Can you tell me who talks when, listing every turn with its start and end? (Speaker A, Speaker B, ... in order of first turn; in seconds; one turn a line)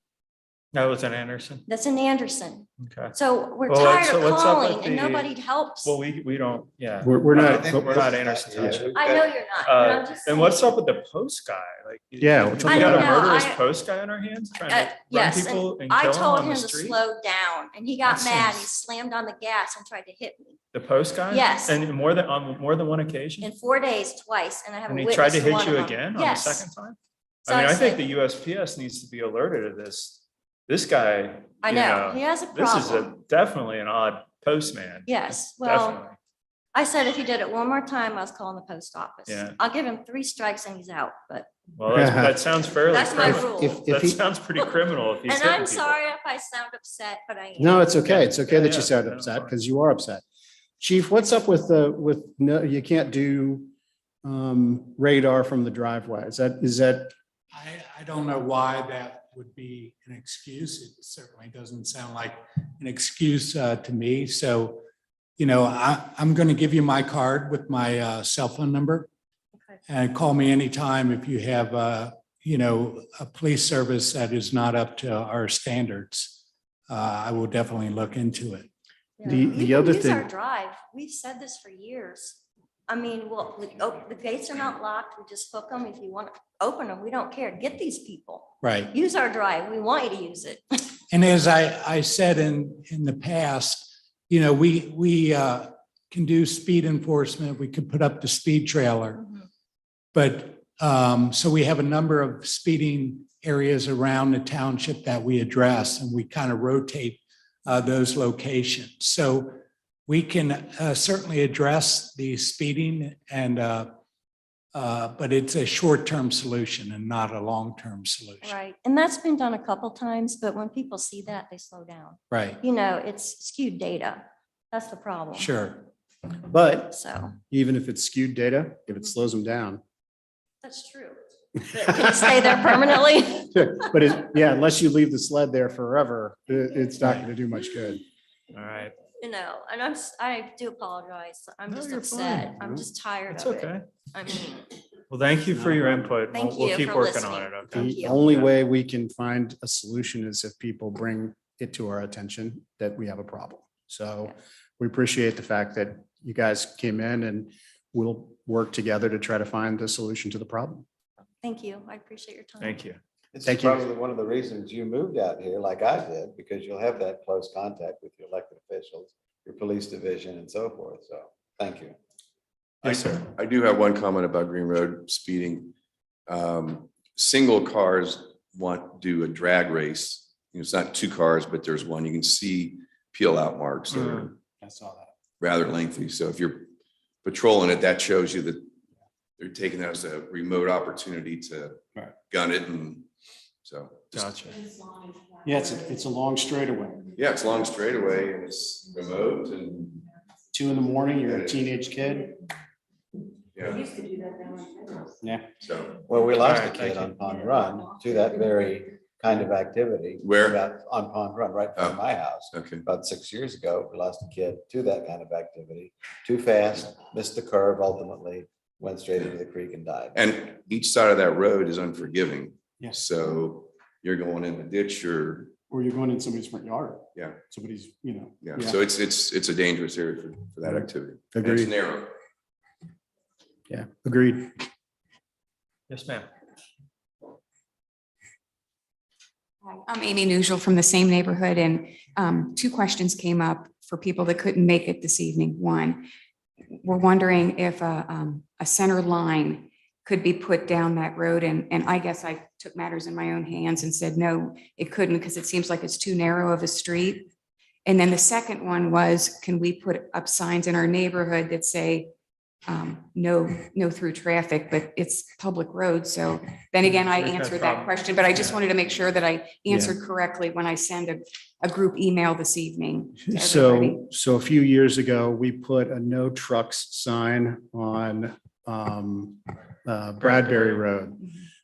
Speaker A: 0.7-1.6
Speaker B: 1.7-6.0
Speaker A: 2.8-3.1
Speaker A: 3.7-5.3
Speaker A: 5.8-8.9
Speaker C: 7.0-8.8
Speaker D: 7.4-9.3
Speaker B: 8.9-10.7
Speaker A: 9.6-17.0
Speaker C: 12.2-13.3
Speaker B: 12.7-13.6
Speaker B: 14.7-20.6
Speaker A: 20.7-23.5
Speaker B: 21.3-21.8
Speaker B: 23.4-26.6
Speaker A: 24.9-36.2
Speaker B: 27.5-28.0
Speaker B: 31.6-33.1
Speaker B: 35.1-36.0
Speaker B: 36.7-41.5
Speaker A: 39.3-39.5
Speaker A: 41.8-46.0
Speaker C: 41.9-42.4
Speaker B: 42.9-43.8
Speaker C: 43.1-44.2
Speaker B: 45.3-48.0
Speaker C: 47.6-50.2
Speaker A: 47.9-49.5
Speaker C: 50.8-53.7
Speaker C: 54.2-57.1
Speaker E: 57.5-64.8
Speaker E: 65.4-69.1
Speaker B: 69.5-69.8
Speaker E: 69.9-76.4
Speaker E: 76.9-78.7
Speaker B: 79.2-90.7
Speaker C: 79.2-80.3
Speaker E: 88.6-88.9
Speaker E: 91.1-99.2
Speaker E: 100.1-109.5
Speaker E: 110.1-113.9
Speaker E: 114.7-118.6
Speaker B: 118.4-125.5
Speaker E: 122.3-122.6
Speaker E: 125.3-125.9
Speaker C: 126.5-127.0
Speaker B: 126.9-127.3
Speaker C: 127.5-129.8
Speaker B: 130.6-133.8
Speaker C: 131.9-132.7
Speaker C: 133.5-138.0
Speaker A: 138.5-138.9
Speaker B: 139.2-144.7
Speaker A: 141.7-143.8
Speaker A: 145.1-148.5
Speaker C: 145.5-146.2
Speaker B: 146.3-148.2
Speaker C: 147.7-160.8
Speaker B: 161.4-162.8
Speaker A: 162.6-163.0
Speaker D: 163.3-171.9
Speaker C: 163.4-163.8
Speaker F: 172.8-175.7
Speaker F: 176.3-184.3
Speaker A: 183.9-184.3
Speaker C: 184.6-185.1
Speaker F: 185.4-186.7
Speaker F: 187.2-188.7
Speaker F: 189.4-193.0
Speaker F: 193.6-194.3
Speaker A: 194.1-194.6
Speaker C: 195.4-197.1
Speaker F: 197.2-200.0
Speaker C: 200.5-202.3
Speaker F: 201.2-201.6
Speaker F: 203.5-204.0
Speaker C: 205.2-205.5
Speaker F: 205.6-206.0
Speaker D: 206.0-220.2
Speaker A: 206.4-207.1
Speaker F: 210.2-210.6
Speaker F: 211.8-212.8
Speaker F: 220.1-225.5
Speaker C: 222.8-223.1
Speaker C: 225.7-228.8
Speaker F: 228.4-232.1
Speaker C: 231.3-231.7
Speaker C: 233.7-234.7
Speaker A: 235.9-236.3
Speaker G: 239.6-246.1
Speaker G: 246.7-257.3
Speaker G: 257.9-262.1
Speaker G: 262.6-274.0
Speaker A: 266.8-268.6
Speaker C: 269.7-269.9
Speaker C: 273.2-281.2